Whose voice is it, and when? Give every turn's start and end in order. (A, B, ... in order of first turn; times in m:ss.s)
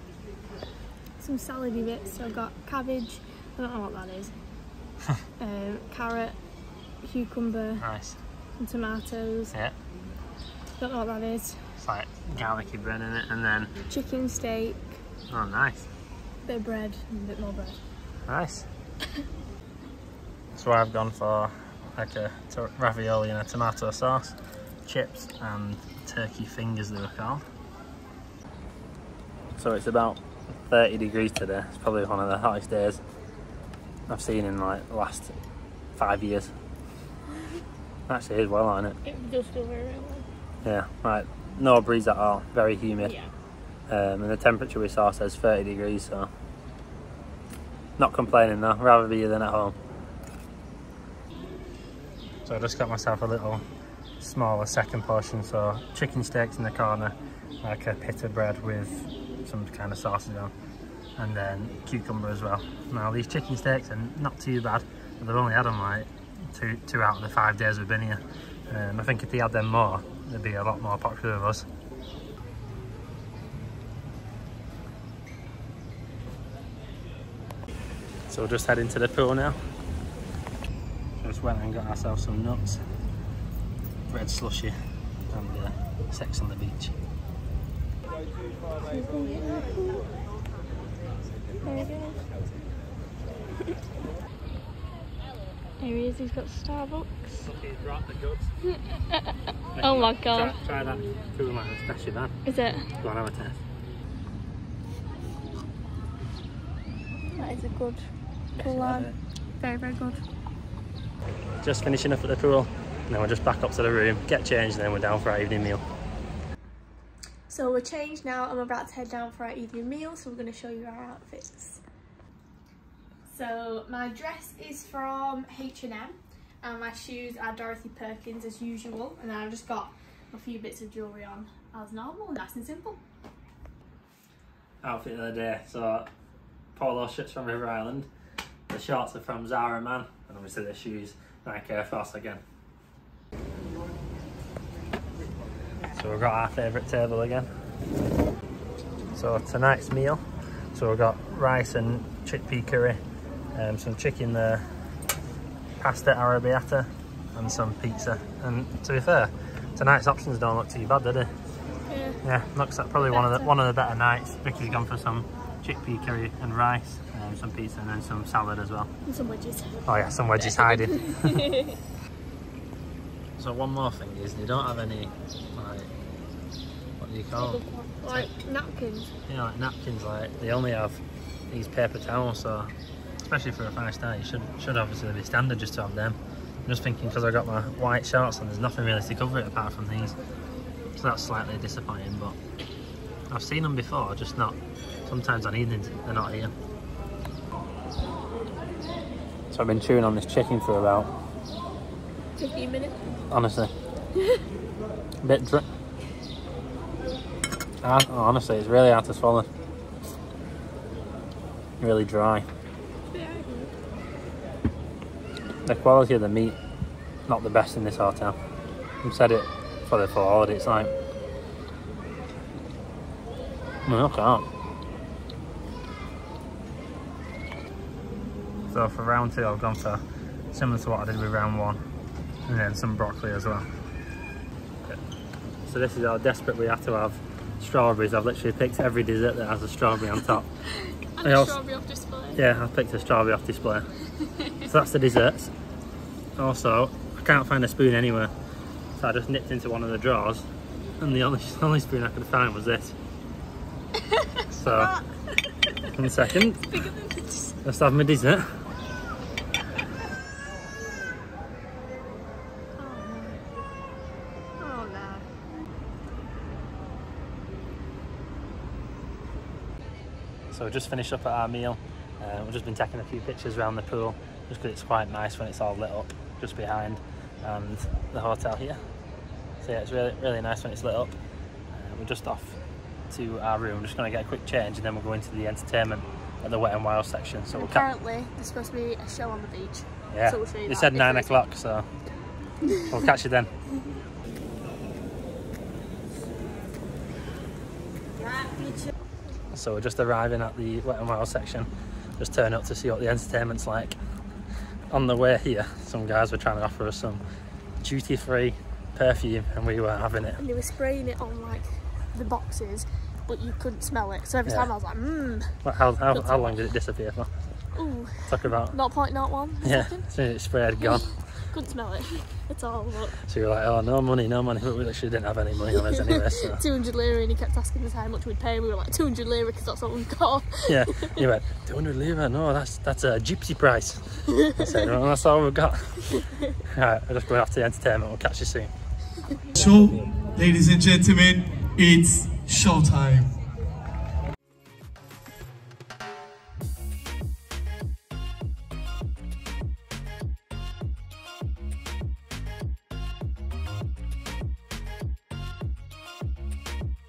0:01.2-0:04.3 A
0:05.4-0:06.4 A
0:07.0-0:07.8 A
0:07.8-0:08.2 B
0:08.6-0:09.5 A
0:10.8-0:11.6 A
0:11.8-0:13.7 B
0:13.9-0:15.0 A
0:15.3-0:15.9 B
0:16.4-0:17.8 A
0:18.3-0:18.7 B
0:20.5-0:27.4 B
0:29.6-0:33.0 B
0:34.1-0:35.4 B
0:36.0-0:36.5 B
0:38.1-0:39.0 B
0:39.0-0:40.3 A
0:40.6-0:43.2 B
0:43.0-0:43.3 A
0:43.9-0:46.3 B
0:48.0-0:49.8 B
0:52.4-0:53.6 B
0:54.2-1:00.5 B
1:01.2-1:11.7 B
1:18.3-1:19.6 B
1:21.2-1:22.8 B
1:24.1-1:24.8 B
1:25.3-1:27.0 B
1:28.8-1:30.1 A
1:31.6-1:32.2 A
1:35.8-1:37.4 A
1:37.4-1:38.5 B
1:38.6-1:40.6 A
1:39.8-1:42.4 B
1:42.5-1:42.9 A
1:43.0-1:43.6 B
1:47.3-1:50.2 A
1:48.6-1:49.2 B
1:51.6-1:55.8 B
1:57.5-2:01.8 A
2:03.3-2:13.0 A
2:14.8-2:16.1 B
2:16.8-2:18.1 B
2:18.7-2:22.4 B
2:25.9-2:27.5 B
2:29.1-2:33.0 B
2:33.5-2:34.7 B
2:35.8-2:41.3 B
2:41.9-2:42.2 A
2:42.2-2:48.9 B
2:43.1-2:43.5 A
2:49.1-2:49.8 A
2:49.9-2:51.5 B
2:50.4-2:51.8 A
2:53.4-2:55.9 B
2:57.0-2:58.3 B
2:57.4-2:59.1 A
2:59.3-3:10.2 B
3:11.0-3:12.4 B
3:13.3-3:16.5 B
3:19.5-3:21.1 B
3:22.4-3:23.0 A
3:23.2-3:23.7 B
3:25.2-3:25.7 B
3:27.8-3:29.5 B
3:31.8-3:32.5 B
3:33.1-3:33.7 A
3:35.6-3:36.6 B
3:37.3-3:38.4 B
3:39.0-3:40.9 B
3:43.9-3:44.5 B
3:48.7-3:51.8 B
3:52.5-3:53.7 B
3:55.7-4:00.5 B
4:00.7-4:02.4 A
4:01.2-4:01.6 B
4:02.4-4:03.9 B
4:04.2-4:04.7 A
4:04.6-4:05.5 B
4:06.4-4:08.3 B
4:09.0-4:10.5 B
4:11.0-4:13.0 B
4:14.0-4:15.1 A
4:14.5-4:15.0 B
4:15.7-4:17.6 A
4:15.9-4:16.8 B
4:17.6-4:18.5 B
4:22.8-4:23.4 A
4:24.6-4:25.3 A
4:30.5-4:38.8 B
4:39.6-4:41.1 B
4:41.7-4:42.6 B
4:43.1-4:47.9 B
4:47.5-4:51.4 A
4:50.1-4:51.9 B
4:52.6-4:53.0 A
4:52.9-4:53.5 B
4:58.2-4:58.9 A
4:59.5-5:04.0 B
5:04.9-5:07.2 B
5:07.8-5:10.4 B
5:10.4-5:15.6 A
5:15.6-5:17.3 B
5:16.1-5:16.5 A
5:17.8-5:20.1 A
5:18.3-5:18.8 B
5:19.6-5:21.1 B
5:20.8-5:23.2 A
5:23.3-5:26.6 B
5:25.7-5:31.2 A
5:30.7-5:38.7 B
5:34.3-5:34.8 A
5:36.1-5:36.6 A
5:39.6-5:43.3 C